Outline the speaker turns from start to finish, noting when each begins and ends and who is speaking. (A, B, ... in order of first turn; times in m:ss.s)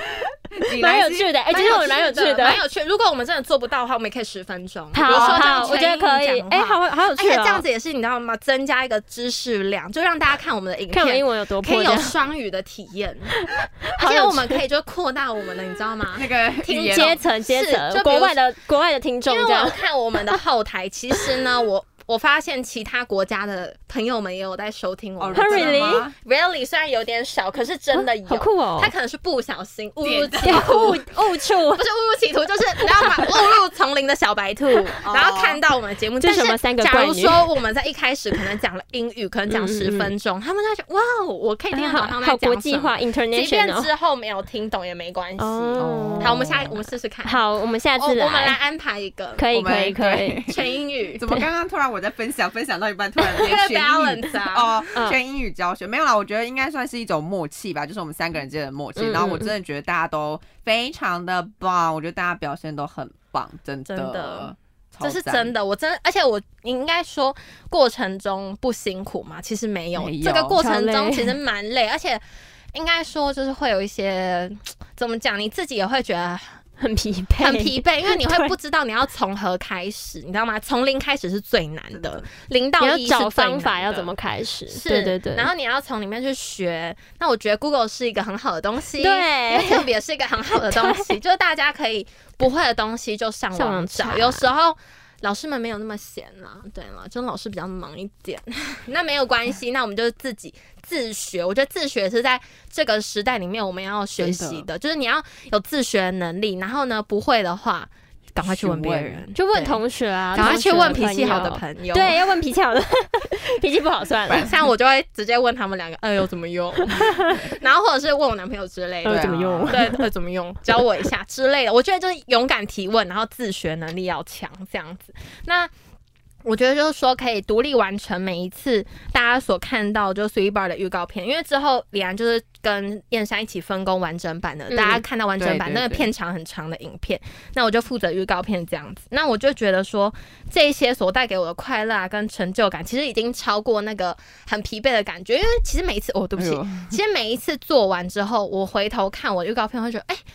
0:00.6-0:01.3 A
0:00.7-0:02.6 B
0:01.5-0:18.4 C
0:04.9-0:07.6 B
0:05.0-0:05.7 A
0:10.9-0:12.2 B
0:13.4-0:14.6 B
0:16.1-0:17.2 A
0:16.9-0:19.8 B
0:19.3-0:47.5 C
0:25.2-0:26.2 A
0:25.3-0:26.1 B
0:28.0-0:28.9 B
0:30.0-0:31.0 A
0:30.4-0:31.8 B
0:35.0-0:35.6 A
0:36.2-0:37.5 B
0:39.5-0:40.1 B
0:41.7-0:43.9 B
0:45.4-0:46.4 B
0:45.8-0:46.8 A
0:47.2-0:48.6 B
0:48.0-0:49.4 C
0:49.4-0:50.4 B
0:49.5-1:05.5 A
0:50.5-0:51.3 C
0:53.3-0:55.0 C
0:59.0-0:59.5 B
1:03.9-1:04.5 C
1:05.0-1:12.2 C
1:10.0-1:10.6 A
1:10.6-1:11.4 B
1:12.7-1:16.6 C
1:16.8-1:18.5 B
1:17.4-1:24.1 C
1:22.0-1:22.2 A
1:22.8-1:25.5 B
1:24.7-1:49.8 C
1:29.0-1:29.9 B
1:30.6-1:31.1 B
1:33.6-1:34.5 B
1:44.2-1:44.7 A
1:48.4-1:49.2 A
1:49.4-1:54.5 B
1:50.3-1:52.2 C
1:54.3-1:54.6 A
1:54.4-2:05.7 C
1:56.9-1:57.3 B
1:59.0-1:59.8 A
1:59.0-2:00.1 B
2:06.4-2:30.2 C
2:14.7-2:15.0 B
2:15.4-2:16.1 A
2:26.4-2:27.0 A